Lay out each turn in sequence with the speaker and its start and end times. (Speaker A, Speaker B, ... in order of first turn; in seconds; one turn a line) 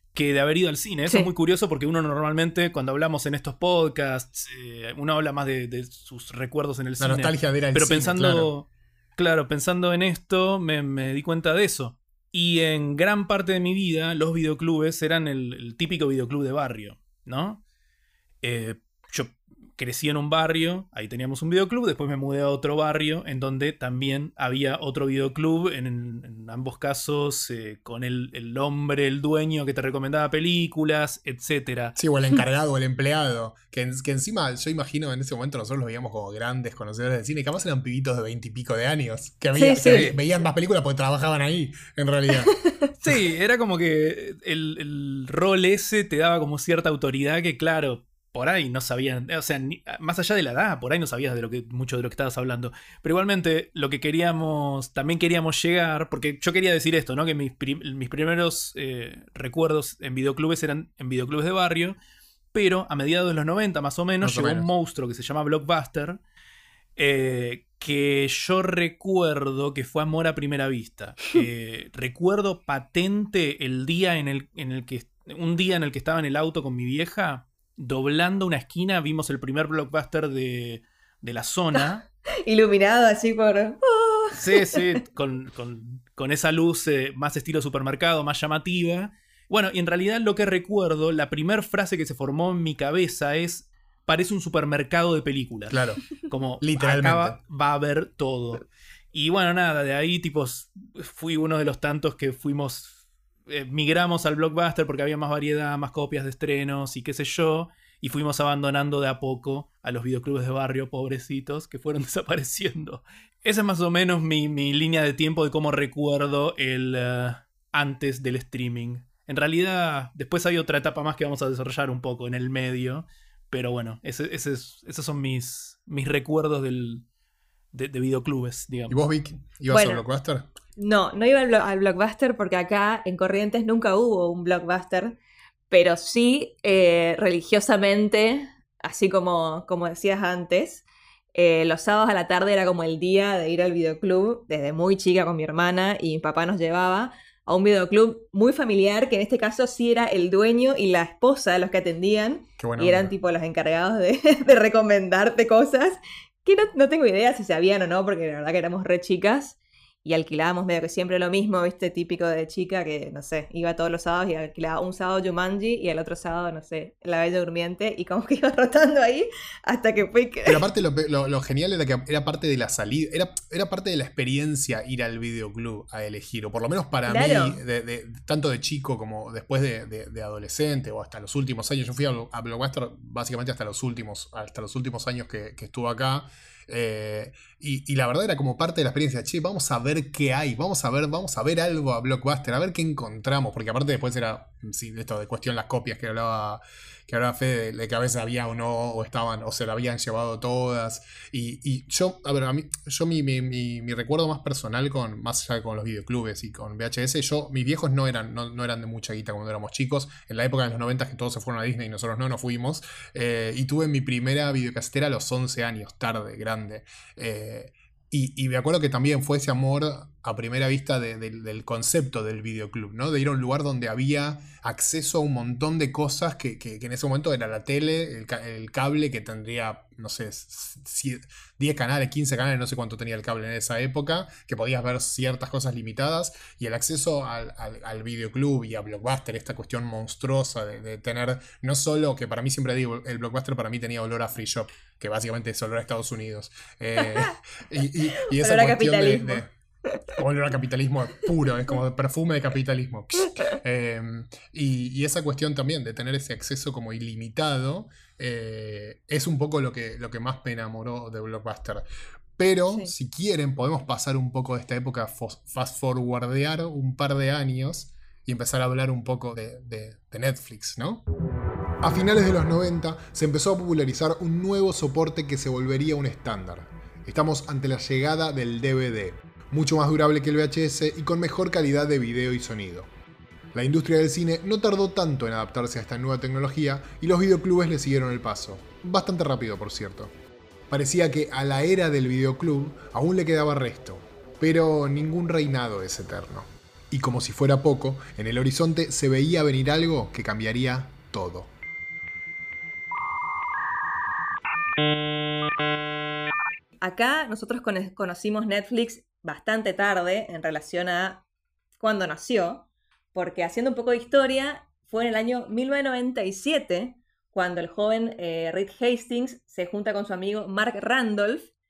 Speaker A: 0.1-17.6
Speaker B: 7.0-8.5
Speaker A: 18.4-32.0
Speaker B: 32.0-42.5
Speaker C: 39.5-40.1
Speaker C: 42.5-42.7
Speaker A: 43.0-62.0
Speaker A: 62.5-66.2
Speaker B: 64.2-64.7
Speaker A: 67.0-82.0
Speaker C: 81.7-85.0
Speaker A: 84.3-103.0
Speaker B: 95.7-96.0
Speaker B: 96.6-97.4
Speaker A: 103.5-127.0
Speaker A: 127.7-129.0
Speaker B: 128.9-130.5
Speaker C: 129.7-130.0
Speaker C: 130.8-135.2
Speaker C: 135.7-170.7
Speaker B: 152.6-153.1
Speaker B: 170.5-249.5
Speaker C: 177.1-177.6
Speaker C: 247.0-247.3
Speaker C: 248.2-250.0
Speaker B: 250.2-261.9
Speaker B: 262.4-271.0
Speaker B: 271.8-282.9
Speaker B: 283.5-290.1
Speaker B: 290.7-301.5
Speaker C: 306.8-311.2
Speaker C: 311.8-321.5